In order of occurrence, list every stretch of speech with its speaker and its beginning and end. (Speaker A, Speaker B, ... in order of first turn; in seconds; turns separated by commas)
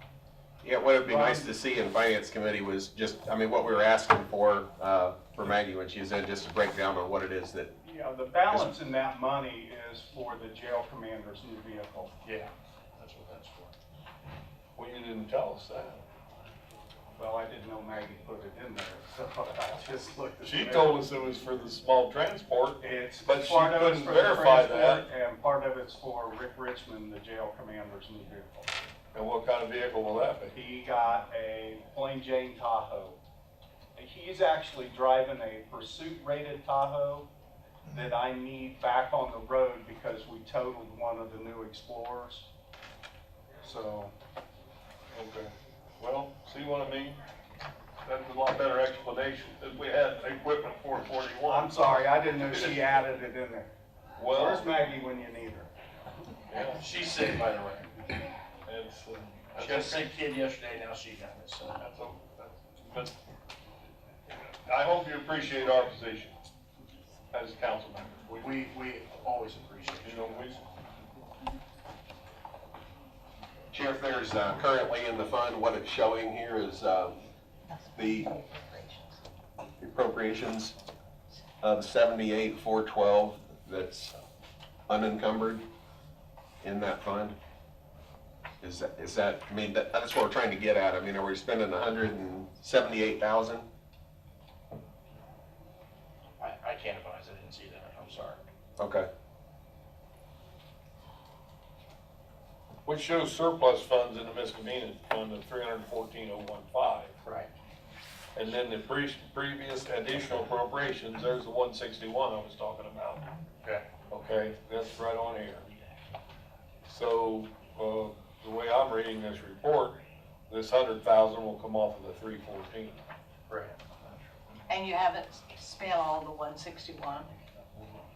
Speaker A: 0.6-7.7, Speaker B: 1.0-1.5, Speaker B: 7.8-12.1, Speaker C: 12.2-13.8, Speaker D: 14.8-16.0, Speaker B: 17.2-21.0, Speaker D: 20.4-25.1, Speaker B: 22.8-28.8, Speaker D: 29.1-30.6, Speaker B: 30.5-33.2, Speaker B: 34.0-37.3, Speaker B: 37.9-42.5, Speaker B: 43.6-44.1, Speaker D: 45.1-47.2, Speaker D: 48.0-52.9, Speaker B: 51.5-53.7, Speaker D: 54.2-54.7, Speaker B: 54.3-55.7, Speaker D: 56.5-56.9, Speaker C: 56.8-58.0, Speaker D: 58.6-60.1, Speaker C: 59.6-61.8, Speaker D: 61.8-63.2, Speaker D: 64.3-66.3, Speaker D: 67.3-68.5, Speaker C: 68.4-70.7, Speaker D: 70.0-70.6, Speaker A: 73.7-77.2, Speaker A: 78.0-78.4, Speaker A: 79.8-80.8, Speaker A: 81.6-84.2, Speaker A: 84.9-85.7, Speaker A: 86.6-87.4, Speaker A: 88.6-93.7, Speaker C: 96.4-98.4, Speaker A: 98.8-99.1, Speaker D: 102.8-107.2, Speaker C: 107.2-107.5, Speaker D: 108.3-113.2, Speaker C: 113.6-113.9, Speaker D: 114.1-115.7, Speaker D: 116.9-123.0, Speaker C: 123.5-123.8, Speaker E: 124.7-127.3